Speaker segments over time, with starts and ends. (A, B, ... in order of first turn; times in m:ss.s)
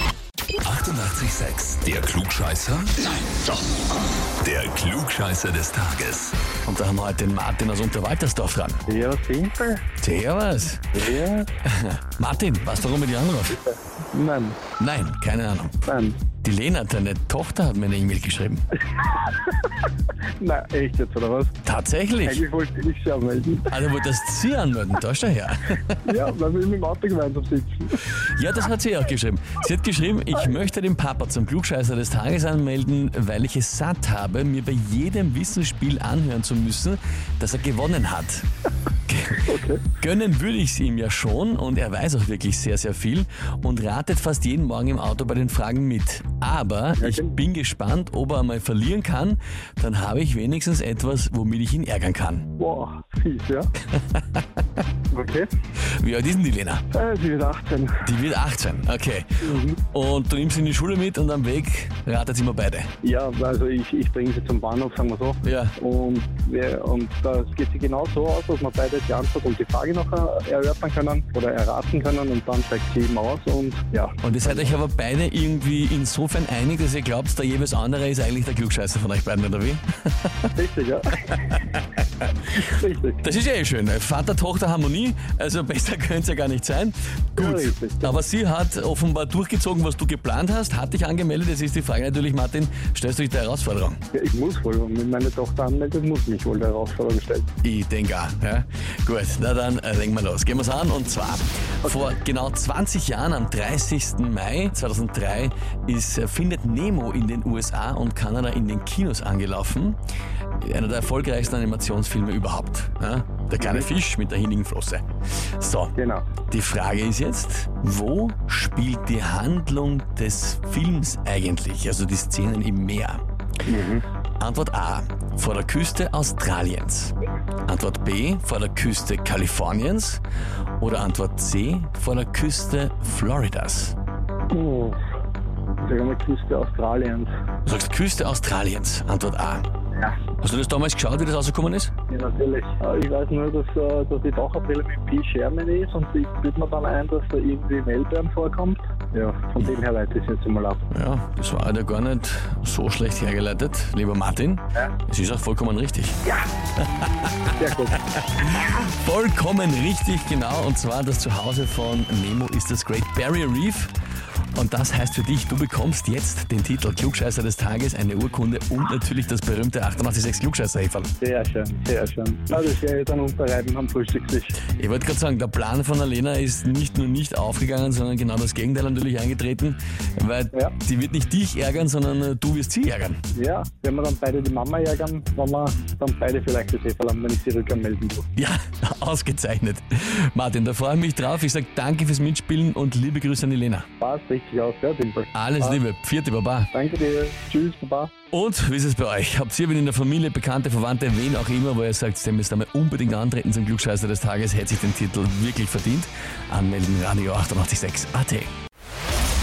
0:00.6-0:03.5 A
0:04.4-0:06.4 A
0:06.6-0:08.8 B
0:08.9-0:09.8 C
0:10.0-0:10.9 B
0:10.9-0:11.5 C
0:11.6-0:13.6 B
0:14.1-0:14.6 C
0:14.8-0:15.7 B
0:15.8-0:16.2 C
0:16.4-0:18.7 B
0:19.0-0:19.7 C
0:20.4-0:21.5 C
0:21.6-0:22.4 B
0:22.2-0:23.7 C
0:23.7-0:26.2 B
0:26.0-0:28.0 C
0:28.2-0:38.4 B
0:39.1-0:52.5 B
0:39.4-0:39.9 C
0:47.0-0:47.4 C
0:52.6-0:53.7 C
0:53.9-0:54.6 B
0:55.1-0:55.5 C
0:55.8-0:56.8 B
0:56.9-0:58.1 C
0:58.0-1:02.9 B
0:59.4-0:59.8 C
1:03.0-1:14.8 C
1:05.4-1:05.7 B
1:14.2-1:20.5 B
1:20.6-1:21.6 C
1:21.4-1:21.8 B
1:22.5-1:23.2 C
1:23.2-1:34.0 B
1:27.4-1:28.2 C
1:34.1-1:37.5 C
1:37.6-1:50.0 B
1:50.6-1:55.0 B
1:53.6-1:53.9 C
1:55.6-1:56.0 B
1:56.0-1:56.3 C
1:56.5-2:03.2 B
2:03.7-2:04.0 C
2:04.4-2:07.1 B
2:07.7-2:10.2 B
2:10.8-2:14.0 B
2:14.5-2:15.0 C
2:15.8-2:17.3 C
2:17.6-2:19.6 B
2:20.4-2:21.9 B
2:22.1-2:30.8 C
2:30.9-2:36.2 B
2:36.8-2:37.5 B
2:37.6-2:38.0 C
2:38.2-2:43.9 B
2:44.5-2:51.1 B
2:51.2-2:54.6 C
2:54.7-3:03.2 B
3:03.3-3:08.3 C
3:08.4-3:13.9 B
3:14.0-3:15.8 C
3:15.3-3:16.7 B
3:16.7-3:18.1 C
3:18.3-3:28.5 B